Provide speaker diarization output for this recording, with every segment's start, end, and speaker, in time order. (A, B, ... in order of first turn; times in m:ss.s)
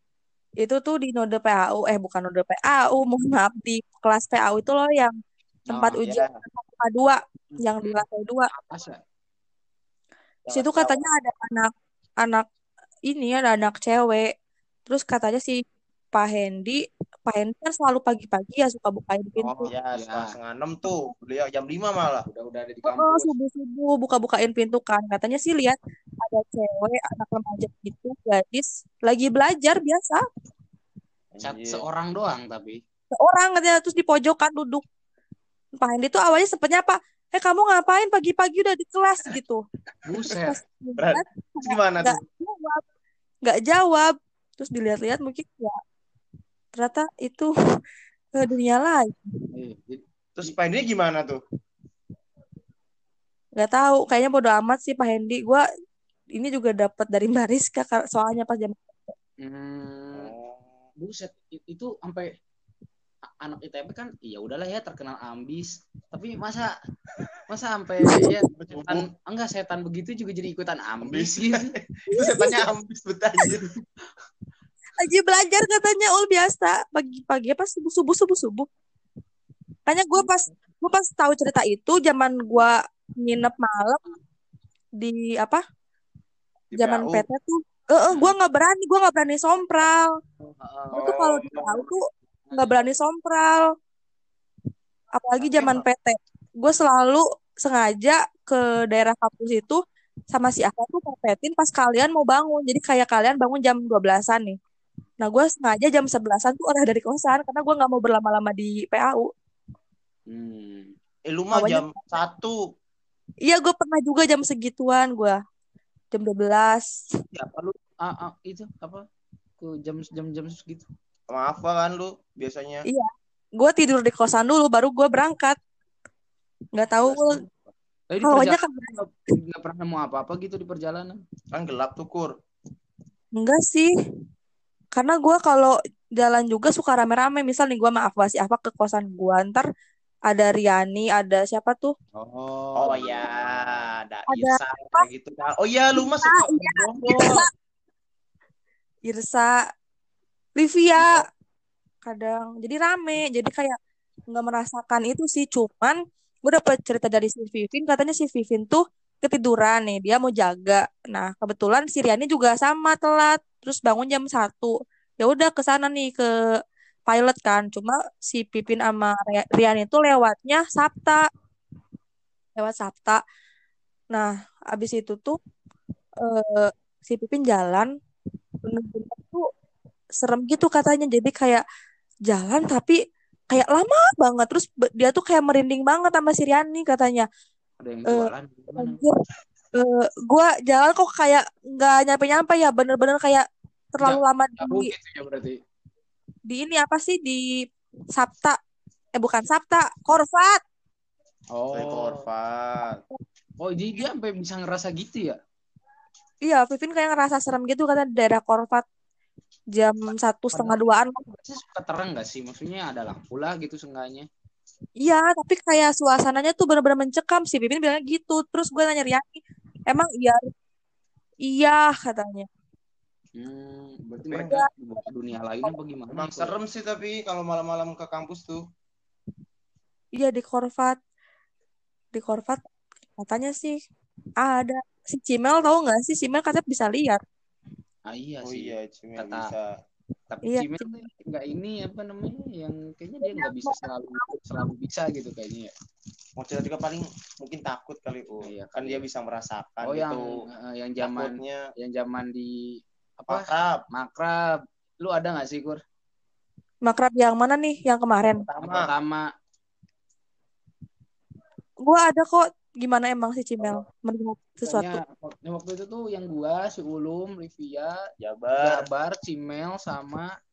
0:00.6-0:05.1 A
0:05.7-0:06.0 B
0:05.7-0:08.5 A
0:06.0-0:06.3 C
0:07.5-0:09.0 B
0:10.4-0:11.0 C
0:10.5-0:11.7 A
0:13.1-0:14.3 A
0:14.8-0:15.6 A
0:16.1-0:19.7 A
0:19.4-0:20.3 B
0:19.6-0:22.3 C
0:22.3-0:23.3 B
0:22.8-0:30.2 A
0:31.3-0:31.8 C
0:31.4-0:32.8 B
0:33.1-0:34.8 A
0:35.8-0:39.6 A
0:40.0-0:40.6 B
0:40.4-0:42.8 A
0:41.0-0:42.2 C
0:43.4-0:45.8 A
0:46.8-0:47.5 A
0:48.3-0:49.4 A
0:49.5-0:50.5 B
0:50.4-0:51.4 C
0:53.6-0:55.6 A
0:56.4-0:59.1 A
0:59.4-1:00.3 B
1:00.1-1:00.7 C
1:01.0-1:02.3 B
1:03.4-1:06.7 B
1:07.5-1:11.7 B
1:08.5-1:09.1 C
1:11.0-1:13.7 C
1:12.1-1:12.6 A
1:15.0-1:18.7 A
1:19.9-1:24.0 A
1:20.2-1:20.5 B
1:25.0-1:25.6 A
1:26.7-1:27.2 C
1:26.8-1:30.1 A
1:28.1-1:28.4 B
1:30.4-1:31.9 B
1:30.9-1:31.8 C
1:30.9-1:32.0 A
1:32.5-1:32.9 B
1:32.5-1:33.6 A
1:35.1-1:39.8 A
1:35.4-1:35.8 C
1:40.3-1:44.6 A
1:45.2-1:49.3 A
1:50.3-1:50.9 B
1:51.3-1:52.6 C
1:51.5-1:52.1 A
1:53.5-1:55.4 A
1:56.1-1:56.9 A
1:57.3-1:57.8 C
1:58.0-1:59.0 B
1:59.6-2:00.9 B
2:01.3-2:02.8 C
2:02.9-2:05.6 A
2:06.8-2:07.4 A
2:07.0-2:11.2 B
2:08.2-2:09.0 A
2:11.5-2:12.3 C
2:13.4-2:13.9 A
2:14.9-2:19.6 A
2:20.3-2:21.9 A
2:22.1-2:23.8 B
2:22.8-2:27.5 C
2:24.3-2:25.1 A
2:25.9-2:27.5 A
2:29.0-2:29.5 A
2:30.6-2:31.2 A
2:32.0-2:33.8 A
2:34.3-2:46.3 A
2:47.1-2:51.2 A
2:52.6-2:53.2 A
2:54.1-2:55.4 A
2:56.2-2:57.9 A
2:58.6-2:59.5 A
3:00.2-3:01.6 A
3:02.3-3:03.0 A
3:03.5-3:07.3 A
3:07.8-3:09.0 B
3:08.1-3:09.1 A
3:09.7-3:14.9 A
3:14.0-3:15.6 B
3:16.5-3:17.5 A
3:18.1-3:18.6 A
3:19.2-3:20.6 A
3:21.5-3:22.2 B
3:21.7-3:23.0 C
3:23.6-3:25.4 B
3:26.4-3:28.8 A
3:29.7-3:31.3 A
3:30.5-3:34.3 B
3:35.0-3:39.3 A
3:39.9-3:40.4 A
3:41.5-3:42.5 A
3:43.4-3:46.6 B
3:44.3-3:44.6 C
3:46.1-3:48.6 C
3:50.2-3:51.0 A
3:52.1-3:52.6 A
3:53.2-3:53.8 A
3:54.4-3:57.2 A
3:58.1-3:59.5 B
3:58.4-3:59.7 C
4:00.3-4:05.7 B
4:00.5-4:01.0 A
4:03.2-4:04.4 A
4:06.4-4:10.4 C
4:08.4-4:09.0 B
4:09.8-4:14.4 B
4:11.0-4:11.6 C
4:13.3-4:13.8 C
4:15.0-4:15.8 B
4:16.8-4:18.4 A
4:18.4-4:18.9 C
4:18.6-4:19.3 B
4:21.8-4:25.0 A
4:23.6-4:23.8 B
4:24.6-4:28.0 B
4:28.2-4:28.8 C
4:28.5-4:30.3 B